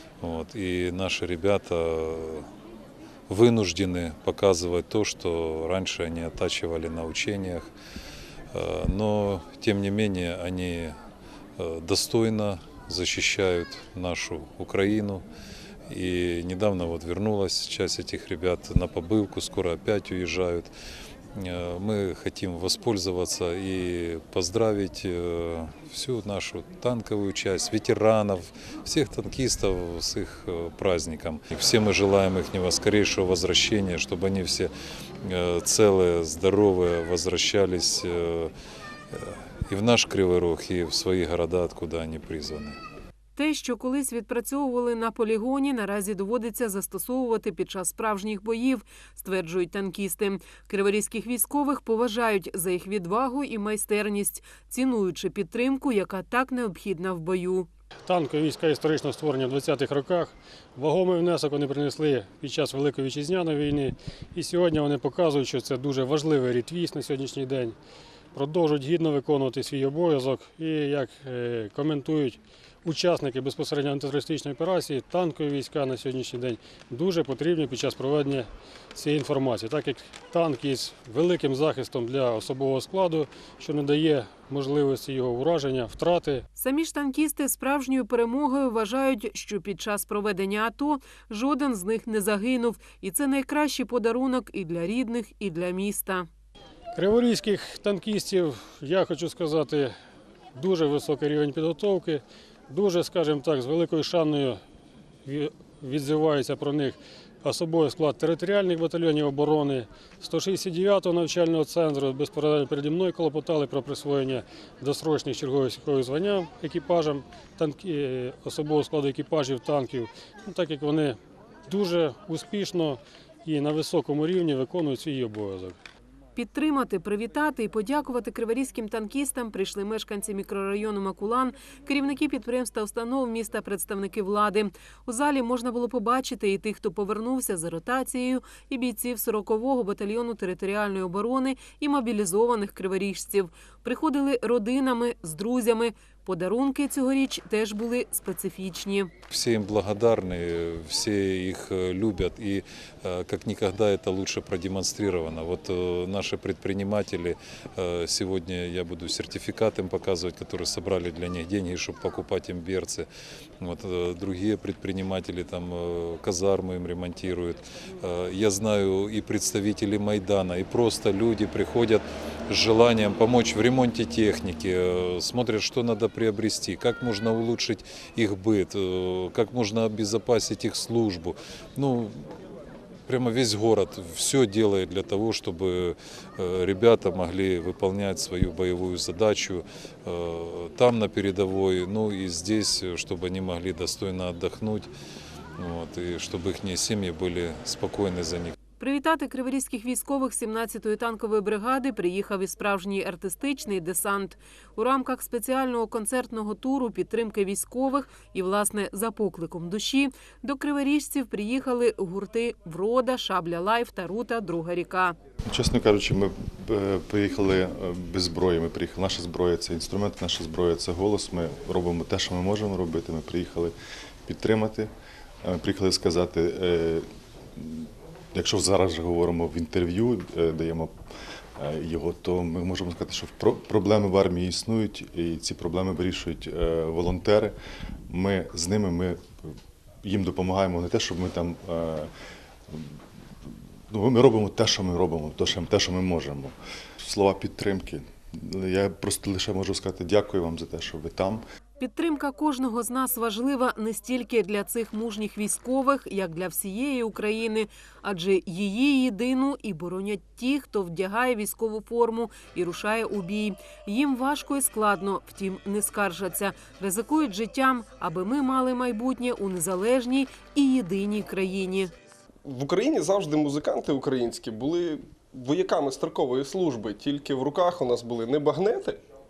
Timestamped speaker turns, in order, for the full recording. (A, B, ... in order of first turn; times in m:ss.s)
0:00.2-0:02.5 A
0:03.3-0:07.7 A
0:08.5-0:11.0 A
0:11.6-0:15.2 A
0:15.9-0:20.7 A
0:21.3-0:34.7 A
0:35.2-0:38.5 A
0:39.1-0:42.8 A
0:43.4-0:57.7 B
0:58.1-1:07.8 C
1:08.3-1:26.4 C
1:26.6-1:36.3 B
1:36.9-1:39.9 C
1:40.5-1:44.6 C
1:45.2-2:05.8 C
2:06.3-2:29.1 B
2:29.3-2:43.1 A
2:43.6-3:02.1 A
3:03.1-3:14.9 A
3:15.6-3:18.5 A
3:18.8-3:35.2 B
3:35.5-3:43.7 D
3:44.2-3:44.9 D
3:45.4-3:47.0 D
3:47.6-3:50.9 D
3:51.6-3:57.5 D
3:58.1-3:59.2 D
4:00.0-4:02.1 D
4:02.7-4:02.9 D
4:03.9-4:11.4 D
4:11.8-4:31.9 B
4:32.4-4:39.0 E